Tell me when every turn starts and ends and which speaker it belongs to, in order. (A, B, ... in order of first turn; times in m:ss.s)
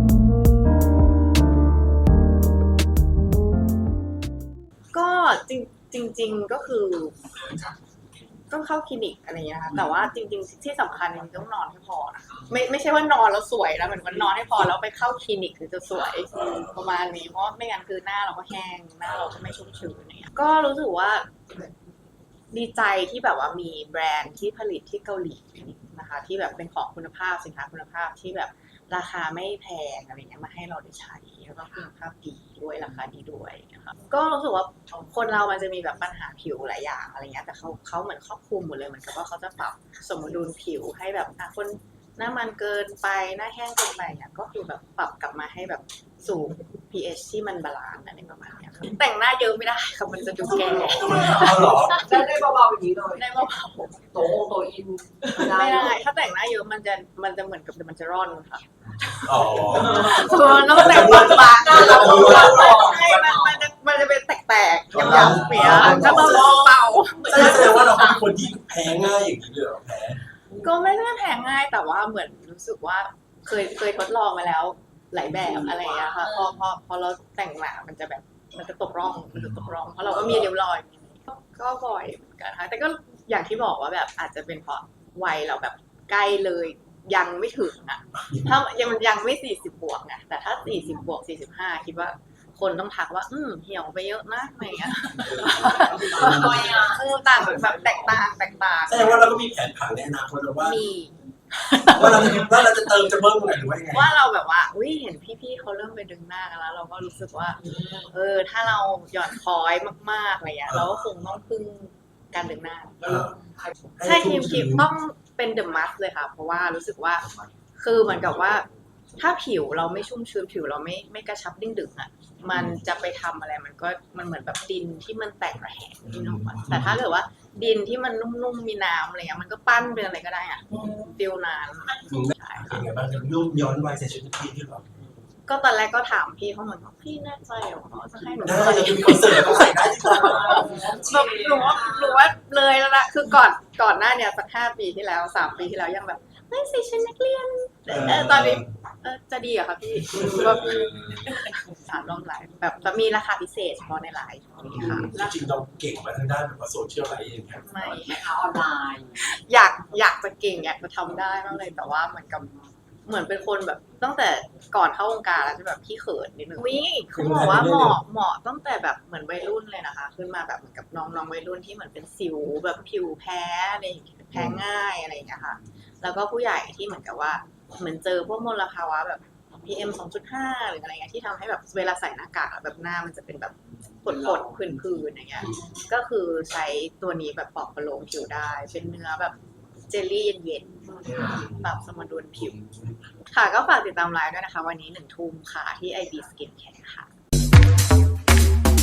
0:04.9-0:07.2 A
0:08.5-0:21.3 A
0:16.3-0:17.0 B
0:19.0-0:19.8 B
0:22.5-0:52.0 A
0:50.7-0:53.3 C
0:50.8-0:52.1 B
0:53.2-0:54.1 A
0:54.1-0:56.0 C
0:55.3-1:07.9 A
0:59.2-1:03.0 B
1:01.1-1:03.3 C
1:04.9-1:06.6 B
1:05.6-1:06.6 C
1:07.2-1:10.2 B
1:10.6-1:39.2 A
1:20.1-1:20.3 B
1:28.3-1:28.6 B
1:35.2-1:36.9 B
1:35.6-1:38.2 C
1:38.9-1:40.8 B
1:40.6-1:41.2 A
1:41.7-1:42.5 A
1:41.9-1:44.1 B
1:43.9-1:53.2 A
1:47.7-1:48.0 C
1:50.7-1:51.1 B
1:53.0-1:53.4 B
1:54.0-1:54.9 B
1:54.0-2:12.9 A
2:06.1-2:07.0 B
2:12.1-2:14.9 B
2:15.5-2:35.4 A
2:18.4-2:20.9 B
2:20.2-2:22.0 C
2:27.9-2:28.6 B
2:34.7-2:38.0 B
2:37.6-2:38.3 A
2:38.0-2:39.2 C
2:39.2-2:42.5 A
2:43.1-3:09.4 A
2:47.1-2:48.0 B
3:09.9-3:12.6 A
3:11.1-3:11.3 C
3:11.1-3:11.7 B
3:12.6-3:12.9 B
3:13.3-3:17.1 A